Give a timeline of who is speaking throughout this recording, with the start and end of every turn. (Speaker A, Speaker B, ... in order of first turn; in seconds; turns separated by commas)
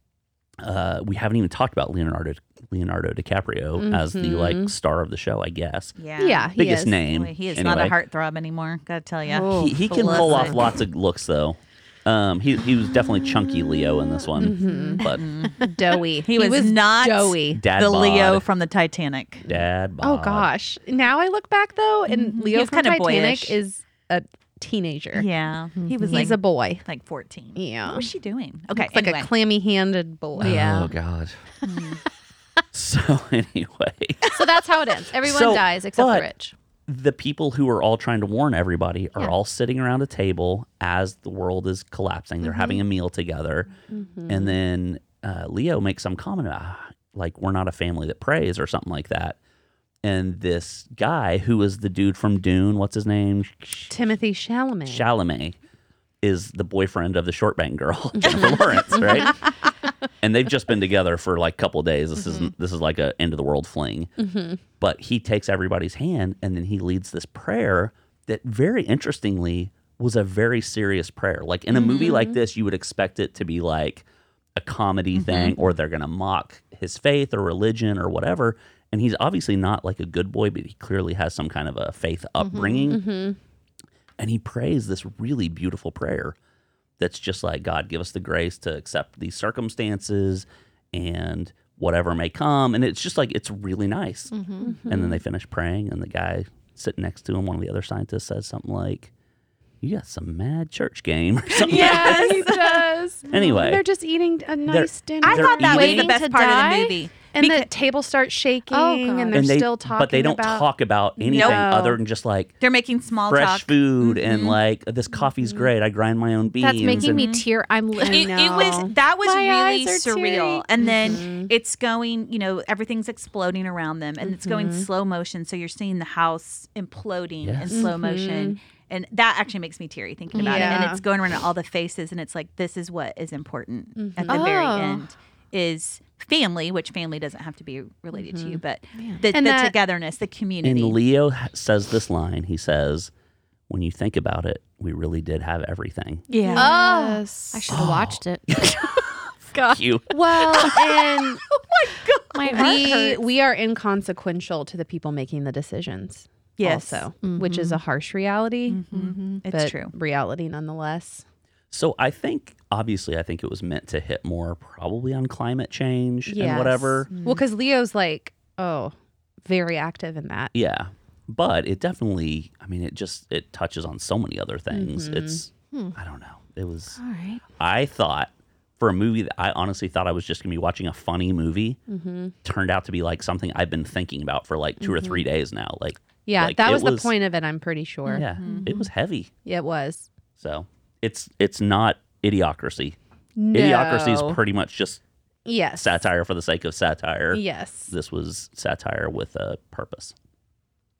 Speaker A: 0.6-6.0, Speaker B: 3.8-4.7, Speaker C: 6.0-10.6, Speaker B: 6.2-7.0, Speaker A: 6.5-7.9, Speaker B: 9.2-10.6, Speaker A: 9.6-15.2, Speaker B: 14.3-17.7, Speaker C: 14.8-19.4, Speaker A: 17.5-18.4, Speaker A: 19.4-20.5, Speaker B: 20.0-25.3, Speaker C: 22.1-23.6, Speaker C: 25.1-29.3, Speaker D: 25.9-26.3, Speaker B: 26.0-26.8, Speaker B: 27.5-28.1, Speaker B: 28.7-30.9, Speaker A: 30.4-31.4, Speaker C: 31.6-32.0, Speaker A: 32.7-34.2, Speaker D: 34.3-36.5, Speaker A: 35.2-36.3, Speaker A: 36.9-43.7, Speaker D: 42.4-42.8, Speaker B: 43.9-44.6, Speaker A: 44.3-49.4, Speaker A: 50.0-53.9, Speaker B: 53.9-55.1, Speaker A: 54.9-55.6, Speaker A: 56.2-59.5, Speaker B: 58.3-59.1, Speaker C: 58.3-58.5, Speaker A: 60.2-64.1, Speaker B: 64.2-64.6, Speaker A: 64.8-83.0, Speaker C: 71.7-72.2, Speaker C: 75.1-75.6, Speaker D: 82.4-83.0, Speaker B: 82.9-83.4, Speaker A: 84.2-86.3, Speaker A: 87.0-94.3, Speaker D: 94.3-94.8, Speaker B: 94.6-95.2, Speaker A: 94.8-99.1, Speaker A: 99.8-102.7, Speaker B: 101.5-112.0, Speaker C: 101.6-102.6, Speaker A: 103.3-103.8, Speaker A: 104.7-106.2, Speaker C: 105.2-107.7, Speaker D: 108.7-109.5, Speaker A: 109.3-112.5, Speaker C: 111.3-111.7, Speaker C: 112.6-114.6, Speaker A: 113.3-117.3, Speaker D: 116.6-118.9, Speaker C: 116.9-117.4, Speaker B: 117.9-121.5, Speaker C: 118.1-141.0, Speaker B: 124.2-124.9, Speaker A: 127.4-127.9, Speaker B: 127.7-128.6, Speaker D: 130.3-130.9, Speaker B: 130.4-131.0, Speaker B: 134.0-134.5, Speaker D: 134.2-135.0, Speaker B: 138.1-138.6, Speaker D: 138.9-139.2, Speaker B: 139.3-139.7, Speaker A: 140.6-143.1, Speaker A: 143.7-146.2, Speaker C: 146.3-146.8, Speaker B: 146.4-147.7, Speaker D: 146.4-150.8, Speaker A: 147.7-148.8, Speaker A: 149.6-150.8, Speaker B: 150.1-151.4, Speaker C: 151.5-152.9, Speaker D: 152.3-153.2, Speaker B: 152.5-158.9, Speaker C: 156.6-157.1, Speaker D: 157.2-157.8, Speaker C: 158.7-159.9, Speaker D: 158.9-159.4, Speaker B: 159.5-161.2, Speaker A: 161.7-167.1, Speaker B: 166.2-168.9, Speaker B: 169.4-170.5, Speaker A: 170.5-177.0, Speaker B: 174.7-175.4, Speaker D: 177.0-177.4, Speaker A: 177.6-181.8, Speaker B: 181.9-182.3, Speaker A: 182.4-187.1, Speaker B: 184.8-185.2, Speaker B: 186.2-188.8, Speaker A: 188.1-189.3, Speaker C: 188.4-188.7, Speaker B: 189.4-190.1, Speaker A: 190.4-192.9, Speaker B: 193.3-194.4, Speaker A: 193.5-195.0, Speaker B: 195.4-196.0, Speaker A: 195.8-200.1, Speaker B: 197.3-197.9